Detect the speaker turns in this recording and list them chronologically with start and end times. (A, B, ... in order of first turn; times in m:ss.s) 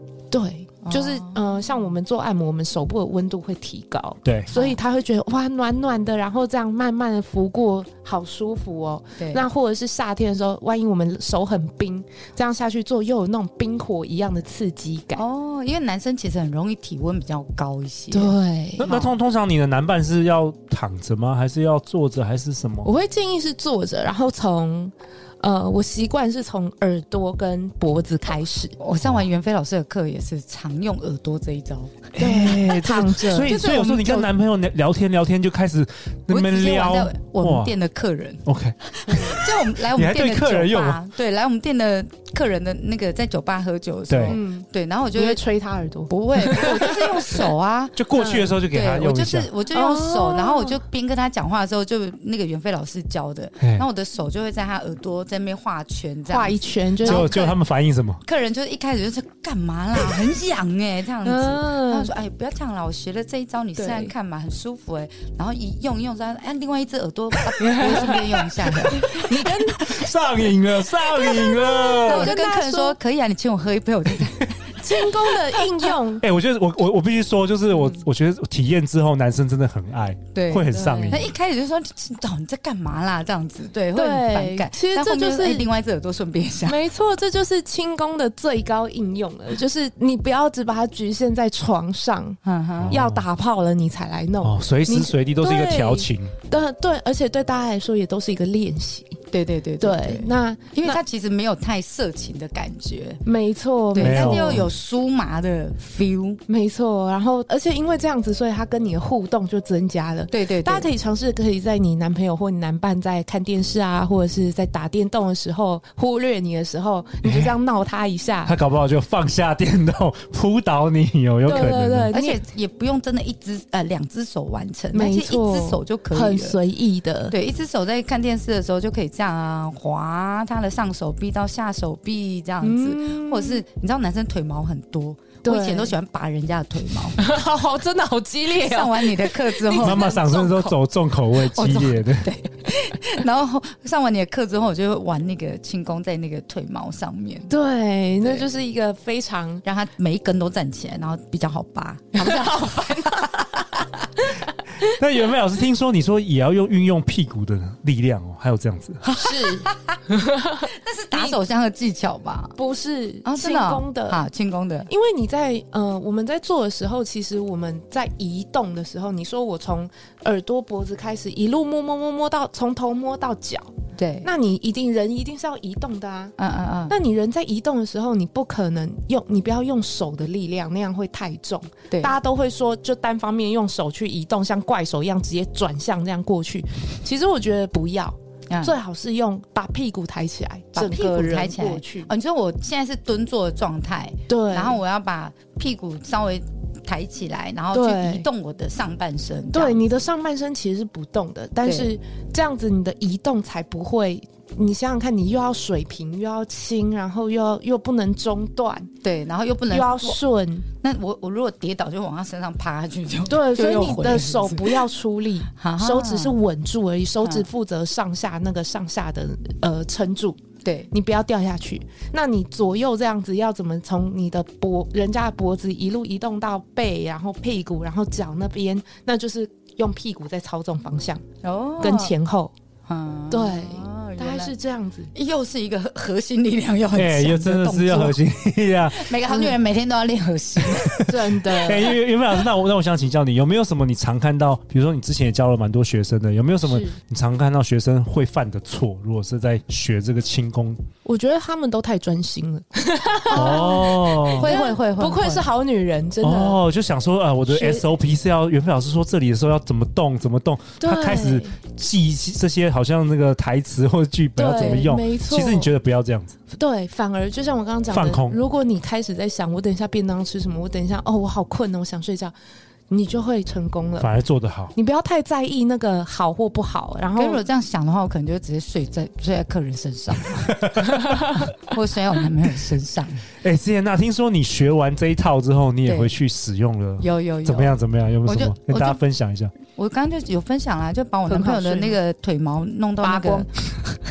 0:00.3-0:15.2 A
0:00.8-0:01.4 B
0:04.2-0:04.5 C
0:09.2-0:09.5 B
0:15.1-0:18.3 B
0:18.1-0:19.0 A
0:18.8-0:22.9 C
0:18.9-0:19.2 B
0:22.8-0:28.8 A
0:28.8-0:32.4 B
0:32.2-0:33.6 A
0:32.2-0:37.8 C
0:33.4-0:34.3 B
0:36.3-0:45.4 B
0:38.4-0:41.0 C
0:44.1-0:44.4 C
0:44.3-0:47.4 A
0:46.1-0:48.0 B
0:48.0-0:49.5 C
0:48.1-0:48.5 A
0:48.6-0:57.6 B
0:49.7-0:50.8 A
0:53.6-0:53.9 C
0:56.3-0:57.5 A
0:57.0-0:58.2 C
0:58.2-1:10.0 B
1:01.2-1:02.1 A
1:03.8-1:04.1 A
1:08.9-1:09.8 A
1:09.7-1:12.3 C
1:11.1-1:13.0 A
1:12.0-1:14.9 B
1:14.8-1:16.2 A
1:16.1-1:21.3 C
1:20.3-1:26.8 B
1:20.7-1:21.3 A
1:23.9-1:25.7 A
1:26.6-1:32.4 A
1:32.4-1:33.0 B
1:32.8-1:33.2 C
1:32.9-1:39.2 A
1:34.4-1:36.3 C
1:39.3-1:43.2 B
1:39.8-1:41.0 A
1:43.2-1:44.5 A
1:44.0-1:46.4 B
1:44.0-1:44.7 C
1:46.5-1:58.6 A
1:50.3-1:50.9 B
1:57.2-1:57.6 C
1:58.4-2:02.1 C
2:01.4-2:02.4 A
2:02.1-2:06.6 B
2:04.9-2:07.4 A
2:07.3-2:17.2 B
2:12.6-2:13.6 A
2:15.4-2:16.0 A
2:17.2-2:20.4 A
2:18.6-2:20.8 B
2:19.8-2:22.3 C
2:21.4-2:27.5 B
2:27.5-2:29.6 A
2:29.6-2:33.8 B
2:32.2-2:33.3 A
2:34.9-2:39.0 C
2:39.0-2:40.0 B
2:39.3-2:40.5 A
2:40.6-2:42.5 B
2:41.1-2:41.4 A
2:42.6-2:44.2 A
2:43.2-2:44.9 B
2:44.9-2:53.7 A
2:54.0-2:54.3 B
2:54.2-2:56.4 A
2:56.4-2:57.0 B
2:56.9-3:12.1 A
3:08.5-3:08.8 B
3:10.7-3:19.8 B
3:14.3-3:14.8 A
3:17.7-3:18.3 A
3:19.5-3:28.9 A
3:21.6-3:21.9 B
3:29.0-3:30.2 B
3:29.7-3:30.7 A
3:30.8-3:34.8 B
3:33.3-3:40.4 A
3:35.6-3:36.4 B
3:40.6-3:40.9 B
3:40.9-3:51.2 A
3:51.4-3:52.1 B
3:51.8-3:52.5 A
3:52.9-3:54.5 B
3:53.3-3:55.1 A
3:55.1-3:58.2 B
3:56.9-3:59.2 C
3:58.9-4:01.1 B
3:59.3-3:59.5 A
4:00.6-4:10.8 C
4:01.1-4:02.0 A
4:06.7-4:07.0 A
4:11.0-4:16.6 A
4:13.3-4:13.7 B
4:13.3-4:14.5 C
4:14.2-4:15.5 B
4:16.2-4:26.4 C
4:17.5-4:17.9 A
4:20.8-4:21.6 A
4:24.4-4:25.7 A
4:26.5-4:32.3 A
4:27.9-4:28.4 C
4:32.9-4:34.1 A
4:34.0-4:34.8 C
4:34.8-4:37.4 A
4:37.2-4:40.6 B
4:40.5-4:41.2 C
4:41.7-4:43.3 B
4:43.4-4:49.5 C
4:45.8-4:46.1 B
4:47.0-4:49.0 B
4:49.7-4:53.9 B
4:51.3-4:52.0 A
4:53.0-4:53.5 A